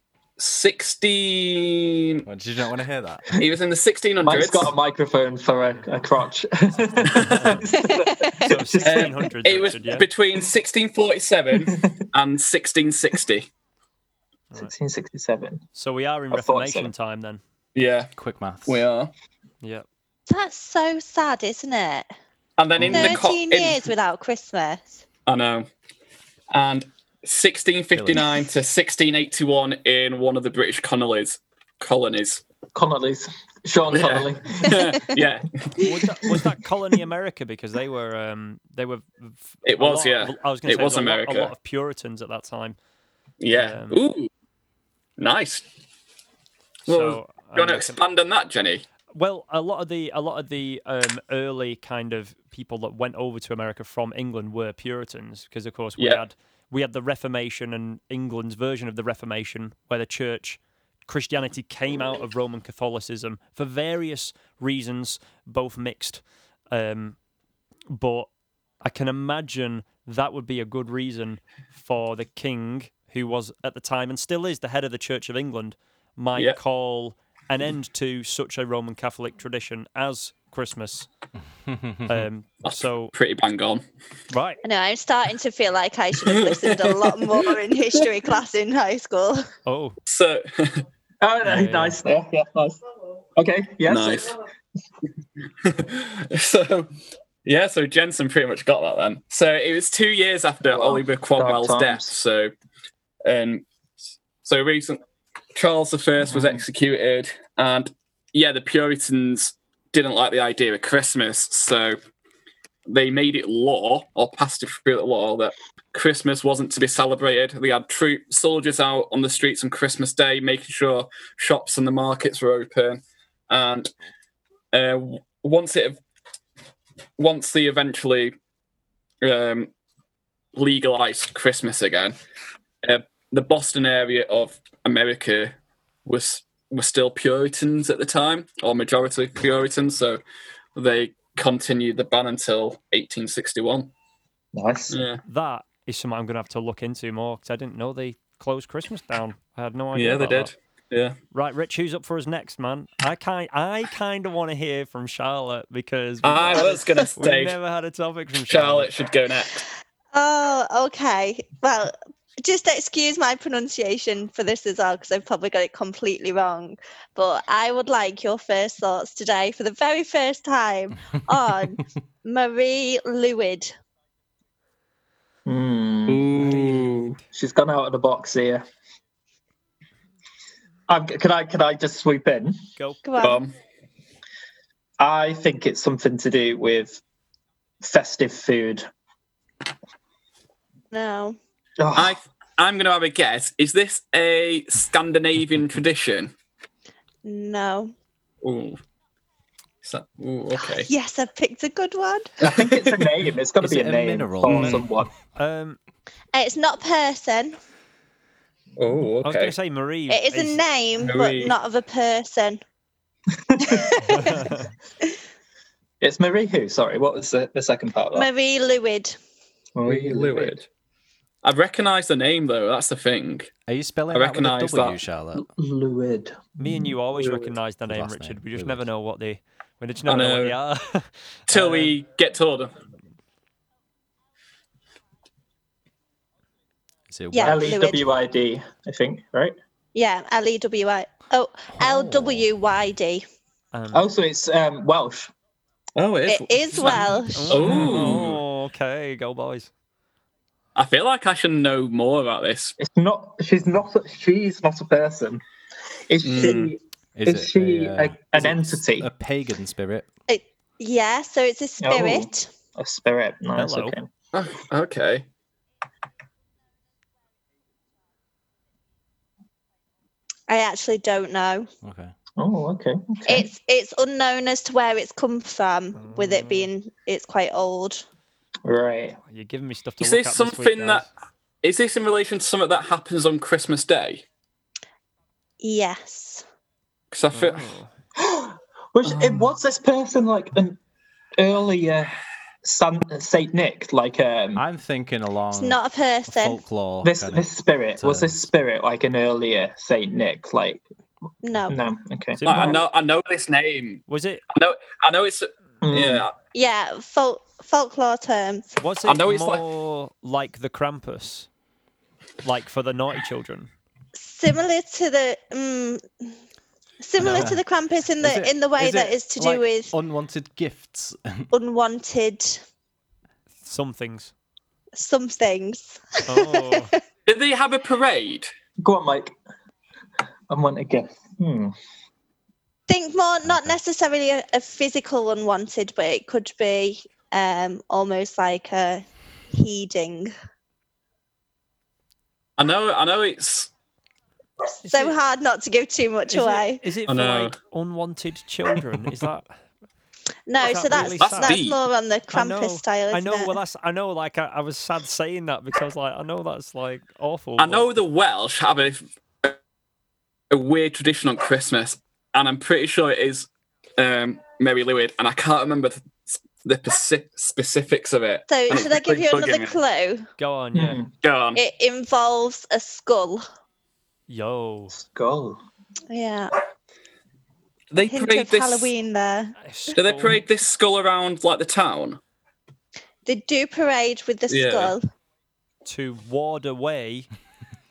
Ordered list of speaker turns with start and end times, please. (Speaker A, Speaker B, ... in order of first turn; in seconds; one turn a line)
Speaker A: 0.4-2.2
Speaker B: 2.2-3.3
Speaker A: 3.4-4.7
Speaker C: 4.2-9.2
Speaker D: 7.2-7.5
Speaker E: 7.8-8.4
Speaker D: 8.5-10.1
Speaker A: 8.8-13.5
Speaker C: 11.6-12.0
Speaker C: 14.6-15.6
Speaker D: 15.8-17.4
Speaker C: 16.3-16.9
Speaker A: 17.7-18.1
Speaker B: 18.1-18.8
Speaker A: 18.6-19.1
Speaker E: 20.3-22.1
Speaker A: 22.6-23.9
Speaker E: 22.8-25.0
Speaker A: 25.2-25.7
Speaker A: 26.5-32.4
Speaker B: 27.9-28.2
Speaker C: 32.7-34.8
Speaker A: 33.9-35.8
Speaker D: 35.8-42.8
Speaker A: 39.6-41.5
Speaker A: 43.4-44.3
Speaker D: 43.5-44.0
Speaker A: 45.2-45.6
Speaker A: 46.9-48.8
Speaker D: 46.9-48.0
Speaker D: 49.1-67.2
Speaker D: 67.9-68.3
Speaker D: 68.8-81.1
Speaker B: 81.7-82.2
Speaker D: 82.0-83.1
Speaker A: 82.6-83.8
Speaker D: 84.3-84.6
Speaker E: 84.6-89.5
Speaker A: 86.2-87.1
Speaker D: 89.7-90.0
Speaker A: 90.0-90.8
Speaker C: 91.2-92.8
Speaker D: 91.4-92.0
Speaker C: 93.3-94.3
Speaker A: 93.9-94.3
Speaker A: 95.6-96.9
Speaker A: 97.4-102.5
Speaker C: 100.7-102.1
Speaker A: 103.2-103.6
Speaker A: 104.4-105.0
Speaker A: 105.5-112.0
Speaker C: 106.3-106.6
Speaker A: 112.9-123.9
Speaker A: 124.7-126.0
Speaker A: 127.2-128.3
Speaker A: 129.2-129.7
Speaker A: 130.5-132.1
Speaker A: 132.8-135.5
Speaker A: 136.1-140.2
Speaker A: 140.8-143.9
Speaker C: 144.5-145.0
Speaker A: 144.9-145.2
Speaker D: 145.2-150.5
Speaker A: 149.9-151.2
Speaker D: 151.3-158.9
Speaker A: 156.2-157.6
Speaker A: 158.5-159.6
Speaker E: 160.1-173.7
Speaker C: 175.4-176.5
Speaker A: 176.1-177.2
Speaker C: 177.3-178.6
Speaker C: 180.9-182.6
Speaker E: 183.0-183.4
Speaker A: 183.2-183.5
Speaker C: 185.0-187.0
Speaker C: 187.8-188.9
Speaker E: 190.9-191.4
Speaker C: 191.8-192.2
Speaker A: 191.9-196.3
Speaker E: 197.2-197.9
Speaker A: 198.4-198.8
Speaker A: 199.8-200.9
Speaker E: 200.6-202.4
Speaker C: 202.4-205.1
Speaker A: 202.6-202.9
Speaker B: 203.6-204.8
Speaker A: 204.4-204.8
Speaker D: 205.3-205.8
Speaker E: 206.3-207.6
Speaker A: 208.8-209.5
Speaker D: 209.2-210.6
Speaker E: 210.1-212.6
Speaker A: 211.0-211.6
Speaker C: 213.4-214.0
Speaker E: 213.7-214.5
Speaker D: 214.1-214.6
Speaker C: 216.0-218.3
Speaker E: 218.1-219.2
Speaker C: 219.7-220.6
Speaker A: 219.8-220.6
Speaker A: 221.4-223.5
Speaker B: 223.7-225.5
Speaker A: 224.1-225.0
Speaker C: 225.5-226.8
Speaker D: 226.6-231.9
Speaker B: 227.9-228.8
Speaker A: 230.1-230.6
Speaker A: 231.5-232.7
Speaker B: 237.1-237.8
Speaker E: 237.3-238.0
Speaker C: 237.4-239.6
Speaker E: 239.9-243.2
Speaker B: 241.7-242.5
Speaker D: 243.7-244.1
Speaker C: 243.9-245.3
Speaker A: 246.0-248.4
Speaker E: 246.3-247.8
Speaker D: 246.8-249.7
Speaker C: 247.7-248.2
Speaker A: 250.7-252.8
Speaker C: 252.8-255.4
Speaker C: 256.1-259.1
Speaker A: 256.2-256.7
Speaker B: 257.2-260.1
Speaker E: 260.3-262.5
Speaker C: 261.8-264.1
Speaker D: 263.6-263.9
Speaker A: 264.3-265.2
Speaker E: 270.5-271.7
Speaker B: 271.8-272.1
Speaker C: 272.4-273.5
Speaker E: 273.3-278.0
Speaker D: 275.9-276.7
Speaker C: 278.6-279.2
Speaker D: 279.3-281.1
Speaker A: 280.0-281.1
Speaker A: 281.6-284.2
Speaker E: 285.6-286.4
Speaker A: 287.1-287.7
Speaker D: 287.3-287.9
Speaker C: 288.2-290.8
Speaker A: 289.0-289.5
Speaker C: 291.4-294.6
Speaker B: 294.5-298.4
Speaker E: 295.5-296.6
Speaker C: 297.0-300.8
Speaker E: 301.4-301.8
Speaker C: 301.7-302.7
Speaker D: 302.3-302.8
Speaker A: 302.4-306.3
Speaker D: 304.1-304.4
Speaker C: 305.8-306.3
Speaker E: 306.5-308.7
Speaker D: 308.8-311.5
Speaker A: 309.1-309.6
Speaker D: 312.4-313.7
Speaker E: 314.2-316.3
Speaker E: 317.0-319.9
Speaker D: 317.2-317.5
Speaker B: 317.2-317.6
Speaker B: 318.2-321.5
Speaker E: 321.5-322.6
Speaker D: 323.6-324.3
Speaker E: 325.0-327.0
Speaker D: 326.3-326.9
Speaker A: 327.3-328.5
Speaker C: 328.8-329.3
Speaker C: 330.5-331.7
Speaker E: 332.9-340.3
Speaker B: 333.4-333.8
Speaker A: 342.6-343.7
Speaker D: 344.8-345.1
Speaker E: 344.9-346.8
Speaker D: 346.3-349.5
Speaker A: 347.1-347.5
Speaker E: 350.5-353.6
Speaker D: 350.6-351.6
Speaker A: 350.9-351.8
Speaker D: 352.3-357.9
Speaker A: 357.6-359.6
Speaker A: 360.5-369.8
Speaker E: 368.5-370.3
Speaker D: 370.4-371.0
Speaker C: 370.7-371.1
Speaker A: 371.2-371.6
Speaker E: 371.6-373.4
Speaker D: 374.3-374.9
Speaker C: 374.9-375.6
Speaker E: 376.1-376.5
Speaker A: 377.9-378.9
Speaker E: 378.1-379.6
Speaker D: 379.6-380.4
Speaker A: 379.9-382.2
Speaker E: 383.2-385.0
Speaker A: 384.5-384.9
Speaker D: 385.9-387.3